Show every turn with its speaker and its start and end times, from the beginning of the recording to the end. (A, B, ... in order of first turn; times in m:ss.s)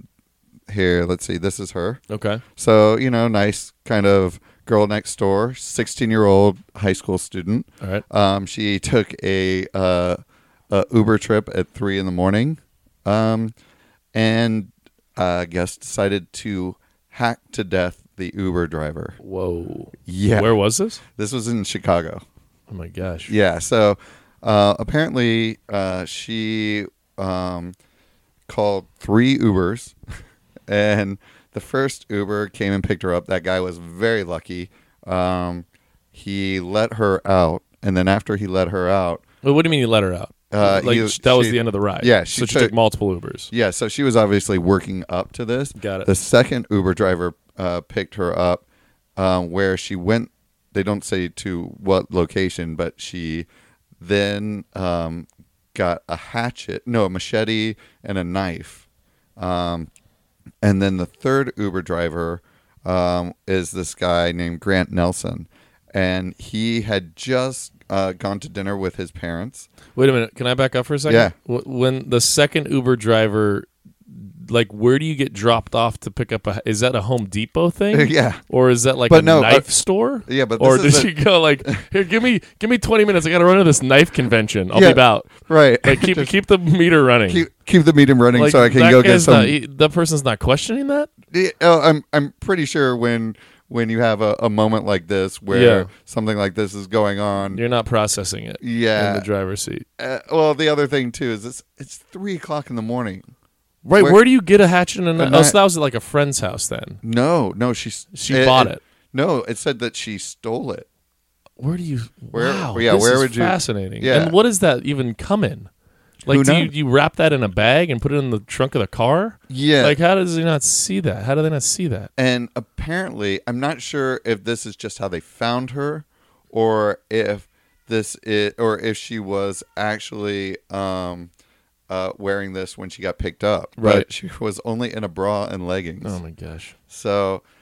0:00.7-0:02.0 A
0:02.1-0:02.4 B
0:02.6-0:10.2 A
0:10.7-0:13.5 A
0:14.1-0:19.2 A
0:19.2-0:21.0 B
0:20.0-0:20.6 A
0:21.1-0:22.2 A
0:22.7-0:23.3 B
0:23.3-0:27.8 A
0:28.5-0:30.0 A
0:30.7-0:39.2 A
0:39.4-0:43.5 B
0:40.5-0:42.7 A
0:43.5-0:48.6 A
0:45.8-0:46.1 B
0:49.2-0:53.5 A
0:54.0-0:58.8 A
0:59.4-0:59.9 A
1:00.6-1:09.7 A
1:09.9-1:27.4 B
1:11.1-1:11.3 A
1:17.9-1:18.4 A
1:19.1-1:19.7 A
1:20.2-1:21.1 A
1:24.7-1:26.3 A
1:27.3-1:29.5 A
1:28.3-1:31.1 B
1:31.3-1:37.6 A
1:35.5-1:35.9 B
1:37.5-1:39.9 B
1:38.6-1:39.2 A
1:40.0-1:43.2 A
1:43.8-1:47.0 B
1:45.2-1:45.6 A
1:47.0-1:50.9 A
1:48.1-1:48.8 B
1:51.6-1:55.7 B
1:52.3-1:54.3 A
1:56.2-2:02.1 B
1:56.3-1:56.7 A
1:59.5-2:00.0 A
2:02.2-2:11.3 A
2:11.9-2:16.2 A
2:13.8-2:14.0 B
2:16.0-2:16.8 B
2:16.9-2:17.4 A